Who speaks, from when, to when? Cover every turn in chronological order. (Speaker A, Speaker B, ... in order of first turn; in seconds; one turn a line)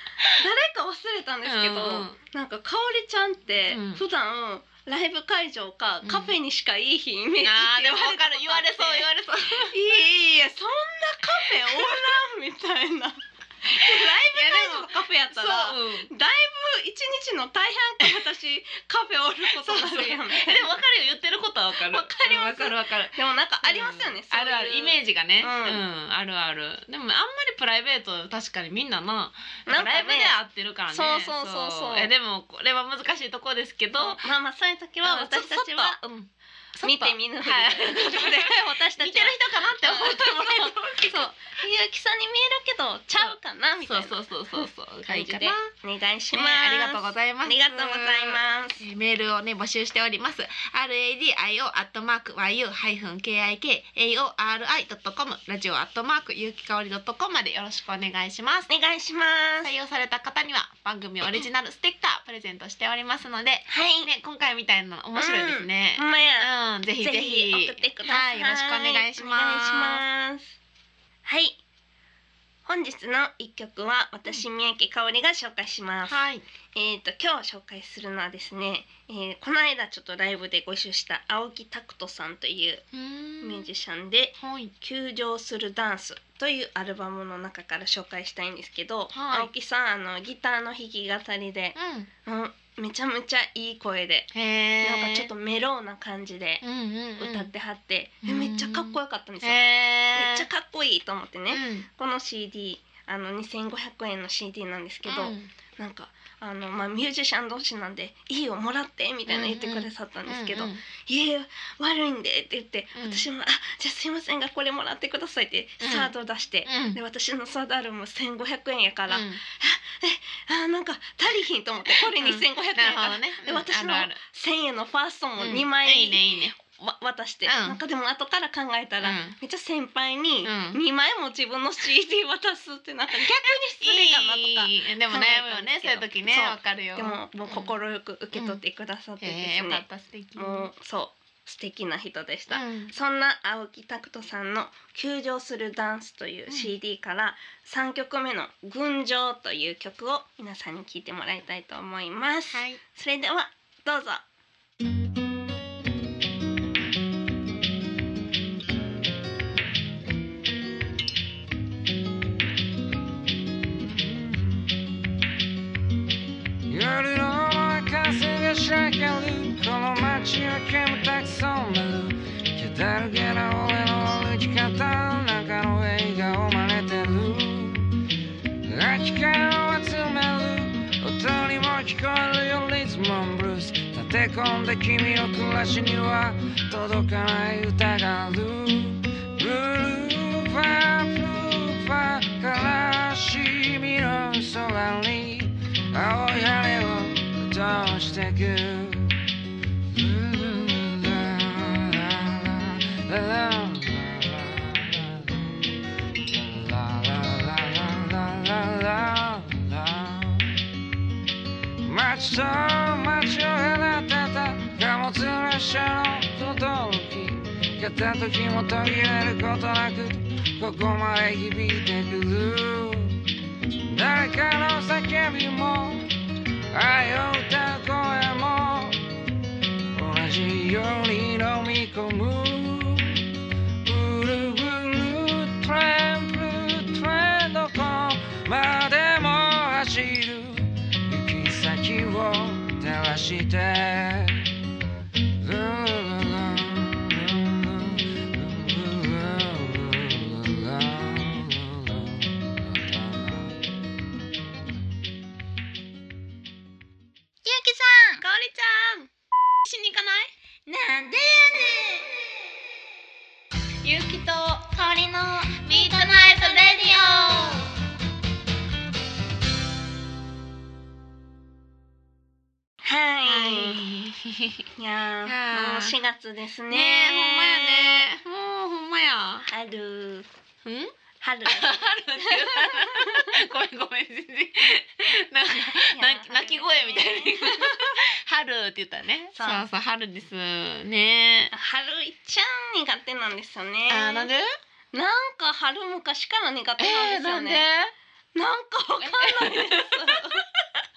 Speaker A: 0.3-9.1
Speaker B: 1.4-2.2
Speaker B: 3.7-4.0
Speaker B: 6.0-6.3
Speaker B: 7.4-9.7
Speaker A: 9.6-20.7
Speaker B: 11.6-12.2
Speaker B: 13.8-16.1
Speaker B: 19.5-34.2
Speaker A: 21.8-25.8
Speaker A: 29.7-30.3
Speaker A: 30.9-32.1
Speaker A: 34.0-36.0
Speaker B: 35.0-41.3
Speaker A: 36.8-48.8
Speaker B: 43.2-45.7
Speaker B: 46.3-58.7
Speaker A: 58.7-59.7
Speaker B: 59.6-70.0
Speaker A: 63.7-64.1
Speaker A: 65.2-66.5
Speaker A: 67.0-70.5
Speaker A: 71.2-71.6
Speaker A: 72.7-76.2
Speaker B: 76.1-76.4
Speaker A: 76.7-82.8
Speaker B: 82.9-83.7
Speaker A: 83.4-91.7
Speaker B: 84.4-84.7
Speaker B: 89.1-89.5
Speaker B: 91.7-92.1
Speaker A: 92.2-94.3
Speaker B: 94.3-95.3
Speaker A: 94.8-96.6
Speaker B: 96.6-97.5
Speaker A: 97.2-99.6
Speaker B: 98.2-100.5
Speaker A: 100.1-139.8
Speaker B: 101.5-101.9
Speaker B: 105.0-105.5
Speaker B: 109.3-110.8
Speaker B: 112.9-113.2
Speaker B: 115.8-116.1
Speaker B: 116.7-117.0
Speaker B: 119.1-119.4
Speaker B: 122.0-124.2
Speaker B: 125.4-126.6
Speaker B: 127.5-127.8
Speaker B: 129.0-129.3
Speaker B: 130.4-130.8
Speaker B: 133.2-137.7
Speaker B: 138.3-138.6
Speaker B: 139.2-140.7
Speaker A: 140.4-154.2
Speaker B: 142.5-142.9
Speaker B: 152.5-152.8
Speaker C: 164.0-164.9
Speaker C: 166.7-177.9
Speaker C: 178.6-199.3
Speaker C: 199.8-210.7
Speaker C: 211.8-223.2
Speaker C: 223.8-226.1
Speaker C: 226.7-229.0
Speaker C: 229.9-244.5
Speaker C: 245.4-253.6
Speaker A: 257.5-259.1
Speaker B: 259.6-260.3
Speaker A: 260.7-262.1
Speaker A: 263.8-267.6
Speaker B: 265.6-267.6
Speaker A: 272.8-273.8
Speaker B: 273.2-274.6
Speaker A: 274.8-278.1
Speaker B: 275.2-275.9
Speaker B: 276.7-279.5
Speaker A: 279.5-280.3
Speaker B: 280.6-280.9
Speaker A: 281.2-283.3
Speaker B: 281.4-291.5
Speaker A: 285.8-288.0
Speaker A: 289.3-289.6
Speaker A: 291.5-294.3
Speaker B: 293.9-294.5
Speaker A: 294.9-297.6
Speaker B: 296.8-297.9
Speaker A: 298.3-300.4
Speaker B: 299.0-300.4